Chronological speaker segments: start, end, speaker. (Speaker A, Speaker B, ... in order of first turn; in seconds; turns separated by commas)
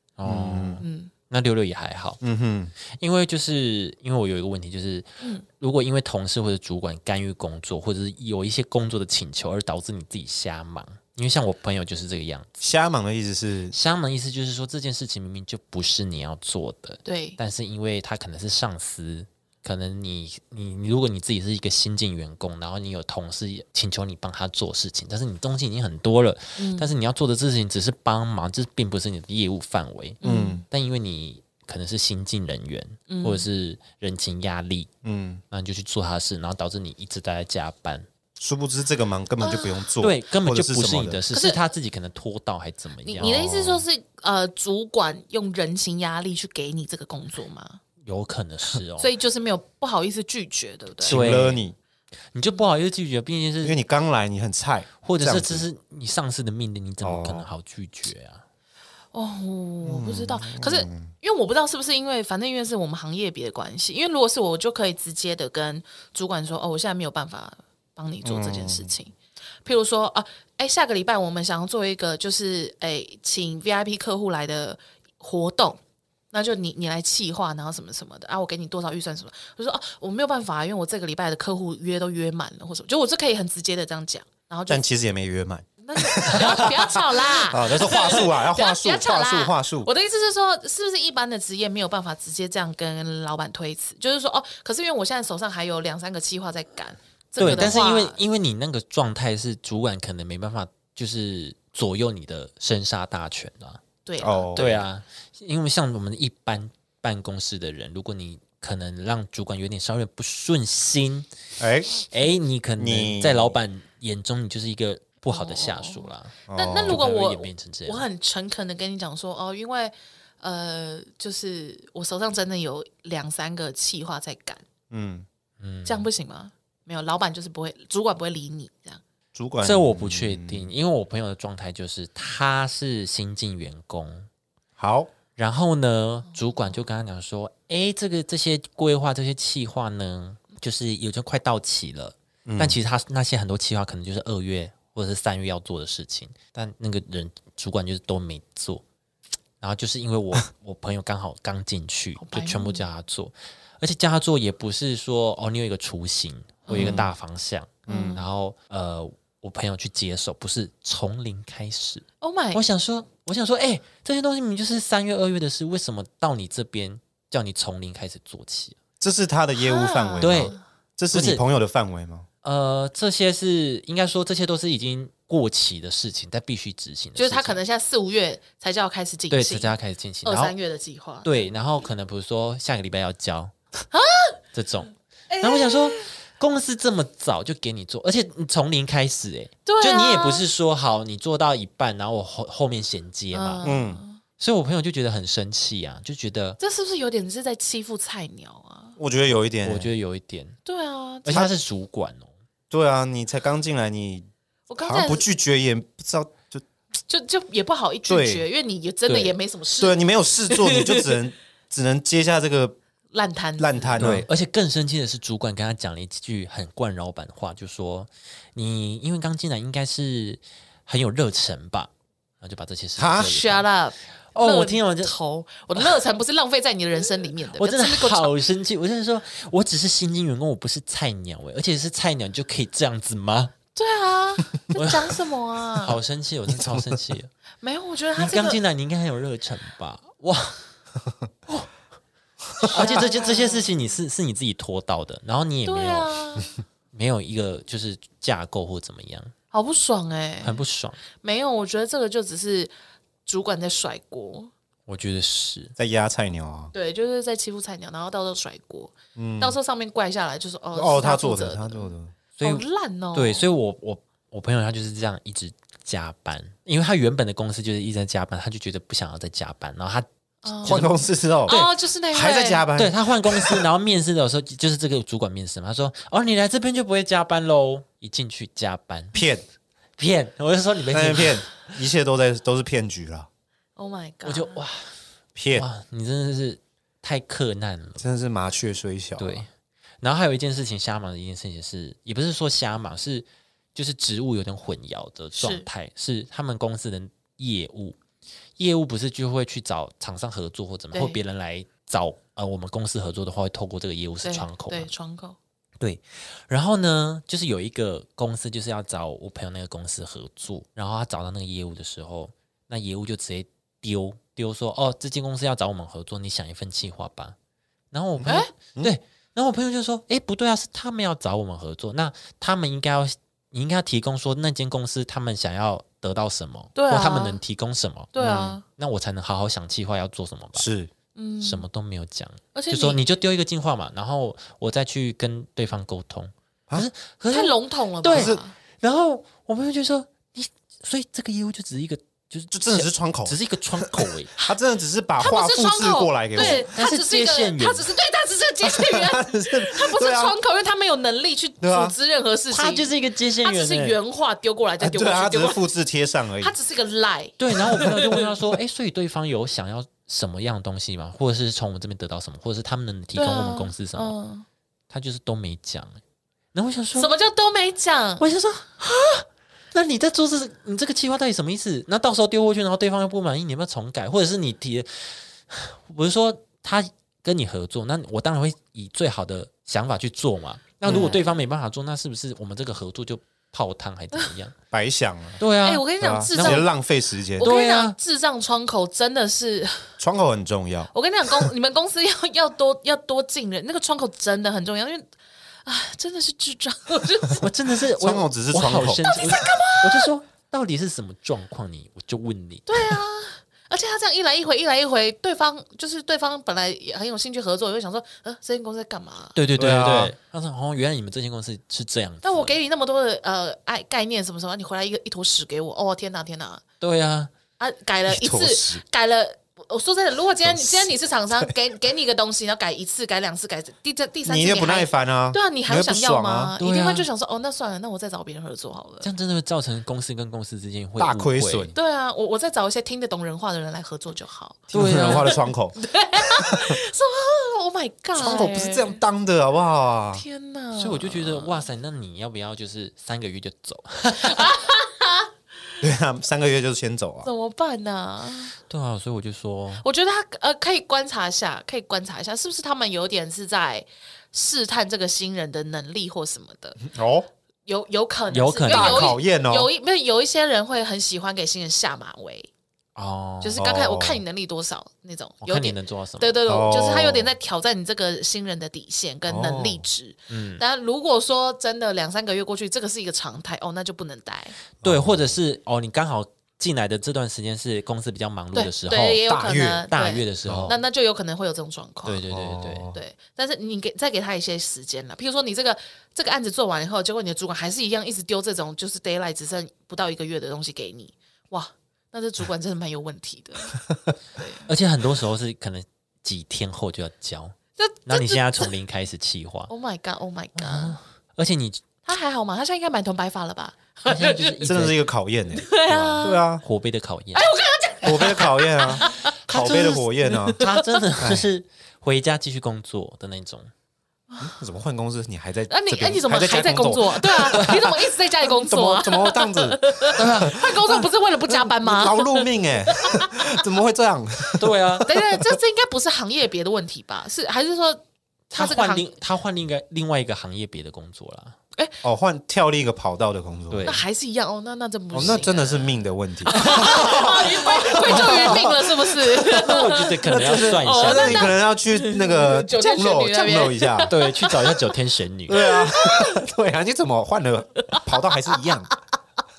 Speaker A: 0.2-2.2, Speaker B: 0.2-0.8, Speaker C: 0.8-1.1, Speaker B: 2.2-2.7, Speaker A: 2.9-5.1, Speaker A: 5.6-12.7, Speaker B: 12.6-13.8, Speaker A: 13.7-34.9, Speaker C: 17.0-17.4, Speaker C: 26.6-26.9, Speaker C: 30.2-30.6, Speaker B: 30.2-30.6, Speaker C: 33.1-33.5, Speaker B: 35.0-35.4, Speaker A: 35.5-38.1, Speaker B: 38.4-41.2, Speaker C: 39.4-39.9, Speaker A: 40.0-43.8, Speaker C: 41.3-41.6, Speaker C: 43.0-47.8, Speaker A: 48.0-49.1, Speaker C: 49.0-51.2, Speaker B: 51.0-51.7, Speaker A: 51.0-51.6, Speaker A: 52.3-53.8, Speaker B: 53.6-55.7, Speaker A: 55.0-58.4, Speaker B: 57.0-57.5, Speaker C: 59.1-75.8, Speaker B: 59.8-61.1, Speaker B: 68.2-68.9, Speaker C: 76.3-84.8, Speaker B: 84.7-89.9, Speaker C: 85.8-98.2, Speaker A: 97.4-103.8, Speaker B: 97.4-97.8, Speaker C: 104.0-104.8, Speaker B: 104.2-104.8, Speaker A: 104.5-111.3, Speaker B: 111.6-112.0, Speaker A: 112.0-118.1, Speaker B: 112.8-113.5, Speaker C: 115.3-124.6, Speaker B: 116.5-117.0, Speaker B: 124.9-125.3, Speaker A: 125.6-126.1, Speaker C: 125.8-129.0, Speaker B: 129.3-130.7, Speaker A: 129.6-134.3, Speaker B: 134.8-135.1, Speaker A: 135.3-148.8, Speaker B: 142.4-142.8, Speaker A: 149.6-168.8, Speaker C: 152.2-152.8, Speaker C: 156.7-157.0, Speaker B: 156.7-157.1, Speaker B: 157.9-158.2, Speaker C: 157.9-158.2, Speaker C: 162.2-162.6, Speaker B: 169.0-172.2, Speaker C: 169.6-170.6, Speaker A: 170.2-170.6, Speaker A: 171.1-171.4, Speaker A: 172.4-177.6, Speaker C: 177.2-181.5, Speaker A: 179.3-180.5, Speaker A: 181.2-183.5, Speaker C: 183.9-184.4, Speaker A: 184.5-193.7, Speaker C: 185.3-186.0, Speaker C: 189.6-190.4, Speaker C: 193.3-194.2, Speaker B: 193.6-194.0, Speaker A: 194.4-196.6, Speaker C: 196.6-199.0, Speaker B: 199.0-199.9, Speaker A: 199.6-200.6, Speaker C: 200.6-201.4, Speaker A: 201.2-202.3, Speaker B: 202.7-204.2, Speaker C: 204.7-205.2, Speaker B: 204.8-206.6, Speaker C: 207.1-211.2, Speaker B: 208.1-208.4, Speaker A: 209.1-209.4, Speaker B: 209.8-212.8, Speaker C: 213.1-214.0, Speaker B: 213.6-214.2, Speaker A: 214.0-221.9, Speaker A: 222.4-223.7, Speaker B: 223.0-223.3, Speaker C: 223.2-228.3, Speaker A: 224.3-225.1, Speaker A: 227.6-233.6, Speaker C: 233.7-235.9, Speaker A: 234.7-235.2, Speaker A: 235.7-237.3, Speaker B: 236.5-237.0, Speaker C: 237.6-238.6, Speaker A: 238.2-240.6, Speaker C: 242.6-243.7, Speaker A: 242.7-246.1, Speaker C: 245.7-246.5, Speaker A: 246.9-249.3, Speaker C: 249.5-250.6, Speaker A: 250.4-251.0, Speaker C: 251.2-252.7, Speaker C: 253.2-254.5, Speaker A: 254.9-255.7, Speaker B: 255.8-256.7, Speaker C: 256.7-263.4, Speaker B: 259.1-259.6, Speaker B: 260.7-262.1, Speaker A: 262.4-271.7, Speaker C: 270.4-270.9, Speaker B: 270.6-271.6, Speaker C: 271.4-272.6, Speaker B: 272.1-273.6, Speaker A: 272.7-279.1, Speaker B: 279.1-279.4, Speaker A: 280.0-281.6, Speaker B: 280.9-283.3, Speaker C: 283.8-284.6, Speaker A: 284.2-284.9, Speaker B: 285.3-285.7, Speaker A: 285.5-288.0, Speaker B: 288.0-289.4, Speaker A: 289.2-289.5, Speaker A: 290.0-298.0, Speaker C: 295.4-295.7, Speaker A: 298.6-304.9, Speaker C: 300.9-301.2, Speaker C: 304.2-305.4, Speaker A: 305.8-317.4, Speaker A: 317.9-328.1, Speaker B: 318.2-318.9, Speaker C: 318.2-318.5, Speaker C: 326.7-327.4, Speaker C: 328.1-328.6, Speaker B: 328.2-328.6, Speaker A: 328.7-330.7, Speaker B: 330.5-330.9, Speaker C: 331.1-331.6, Speaker A: 331.4-344.3, Speaker C: 332.5-333.0, Speaker C: 337.3-338.5, Speaker B: 338.1-338.4, Speaker B: 342.5-346.7, Speaker C: 345.2-355.7, Speaker A: 346.4-347.9, Speaker B: 348.6-350.3, Speaker B: 351.6-351.9, Speaker A: 352.5-354.0, Speaker B: 354.8-356.5, Speaker C: 356.4-358.2, Speaker A: 357.4-364.1, Speaker C: 363.1-364.4, Speaker A: 364.9-366.0, Speaker A: 366.5-367.1, Speaker C: 366.9-368.3, Speaker A: 368.2-384.6, Speaker B: 380.8-381.2, Speaker C: 380.9-381.2, Speaker B: 384.7-385.4, Speaker A: 385.4-386.6, Speaker C: 385.6-386.7, Speaker B: 386.0-387.5, Speaker A: 387.4-387.9, Speaker C: 387.4-389.9, Speaker B: 390.0-391.5, Speaker C: 390.9-395.1, Speaker C: 395.6-397.4, Speaker A: 397.4-403.0, Speaker B: 398.0-399.1, Speaker C: 399.1-400.1, Speaker C: 402.7-409.4, Speaker A: 409.3-412.5, Speaker B: 409.6-410.1, Speaker C: 412.2-416.6, Speaker A: 416.8-417.3, Speaker C: 417.6-429.1, Speaker B: 418.1-418.8, Speaker B: 420.4-421.5, Speaker B: 424.2-426.5, Speaker A: 426.6-427.1, Speaker A: 429.0-431.7, Speaker B: 431.0-431.7, Speaker C: 431.7-439.0, Speaker B: 434.7-435.8, Speaker A: 434.7-435.4, Speaker B: 436.4-436.8, Speaker B: 438.1-440.2, Speaker C: 440.1-441.7, Speaker A: 440.8-444.6, Speaker C: 444.2-445.3, Speaker B: 445.8-447.3, Speaker C: 447.2-448.5, Speaker A: 448.7-449.8, Speaker C: 449.8-456.8, Speaker B: 456.8-457.3, Speaker C: 457.6-462.5, Speaker A: 458.3-459.2, Speaker B: 458.7-459.7, Speaker A: 462.9-463.6, Speaker C: 463.4-474.6, Speaker B: 463.6-464.2, Speaker A: 465.4-466.4, Speaker B: 466.5-467.3, Speaker B: 469.3-469.8, Speaker A: 470.3-470.6, Speaker B: 474.8-475.3, Speaker A: 474.8-479.4, Speaker C: 478.5-482.2, Speaker B: 479.3-479.9, Speaker A: 479.9-480.8, Speaker B: 480.4-480.7, Speaker A: 482.1-482.9, Speaker B: 482.3-483.0, Speaker C: 482.9-493.8, Speaker C: 494.3-494.7, Speaker A: 494.6-499.7, Speaker C: 497.8-498.7, Speaker C: 499.7-501.0, Speaker A: 500.6-501.8, Speaker C: 502.0-504.6, Speaker A: 504.1-505.0, Speaker B: 504.6-505.7, Speaker C: 505.5-506.4, Speaker A: 505.9-507.5, Speaker B: 506.2-506.6, Speaker C: 507.3-511.0, Speaker B: 508.0-510.6, Speaker A: 509.6-509.9, Speaker A: 510.6-513.7, Speaker B: 511.2-511.4, Speaker B: 514.4-525.2, Speaker C: 515.7-523.6, Speaker A: 520.2-520.4, Speaker A: 524.6-525.1, Speaker C: 525.0-528.0, Speaker A: 528.5-531.5, Speaker C: 528.5-529.1, Speaker B: 532.0-533.9, Speaker A: 533.7-534.0, Speaker C: 533.8-535.9, Speaker B: 535.1-544.1, Speaker C: 536.4-544.8, Speaker A: 536.6-538.7, Speaker A: 539.4-541.6, Speaker A: 544.1-545.7, Speaker B: 545.5-548.9, Speaker C: 545.5-546.4